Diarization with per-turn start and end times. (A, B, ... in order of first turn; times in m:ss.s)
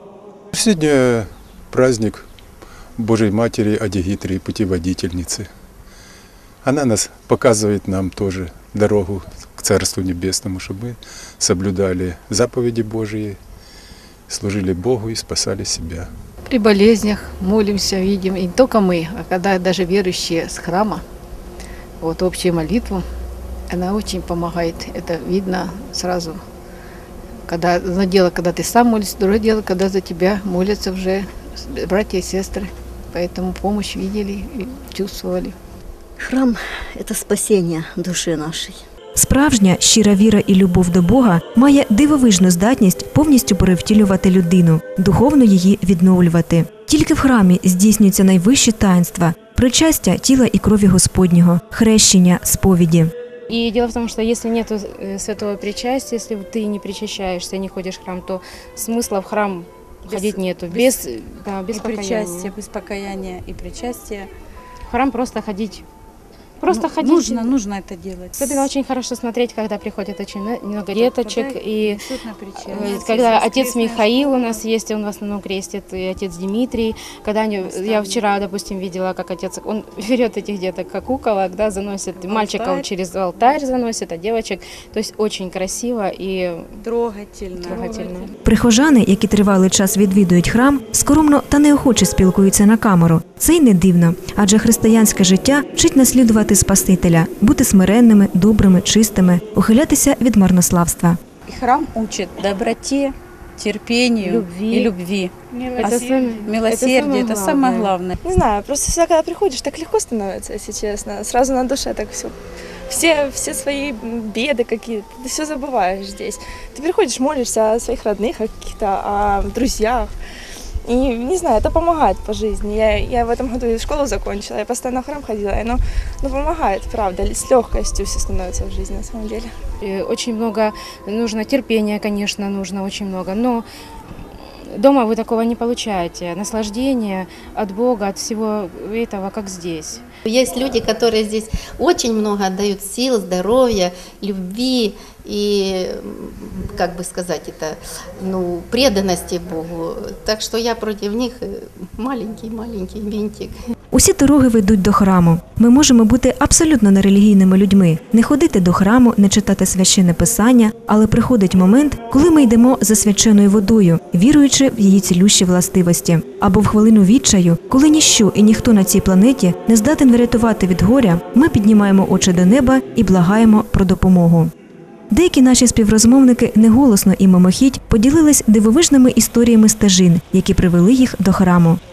0:00.5-0:02.2 A
0:03.0-0:05.5 A
0:06.6-0:13.4 A
0:14.3-0:16.1 A
0:16.5-0:21.0 B
0:22.0-0:23.0 B
0:23.7-0:26.4 B
0:27.5-0:35.5 B
0:36.2-0:38.8 C
0:39.1-0:53.1 D
0:53.5-1:02.5 E
1:00.1-1:01.0 F
1:01.7-1:04.3 F
1:04.8-1:05.8 E
1:06.6-1:07.6 E
1:06.7-1:08.6 F
1:08.3-1:12.0 E
1:10.9-1:14.6 F
1:12.6-1:26.8 E
1:17.6-1:18.3 F
1:22.2-1:22.8 F
1:26.8-1:28.3 F
1:27.6-1:28.3 E
1:28.4-1:41.2 D
1:41.4-1:48.1 F
1:44.2-1:44.9 E
1:45.8-1:47.9 E
1:48.2-1:52.3 G
1:52.9-2:00.1 G
2:00.8-2:09.5 G
2:09.8-2:13.6 E
2:14.6-2:20.0 E
2:20.2-2:33.6 H
2:33.9-2:54.5 D
2:55.1-3:01.8 D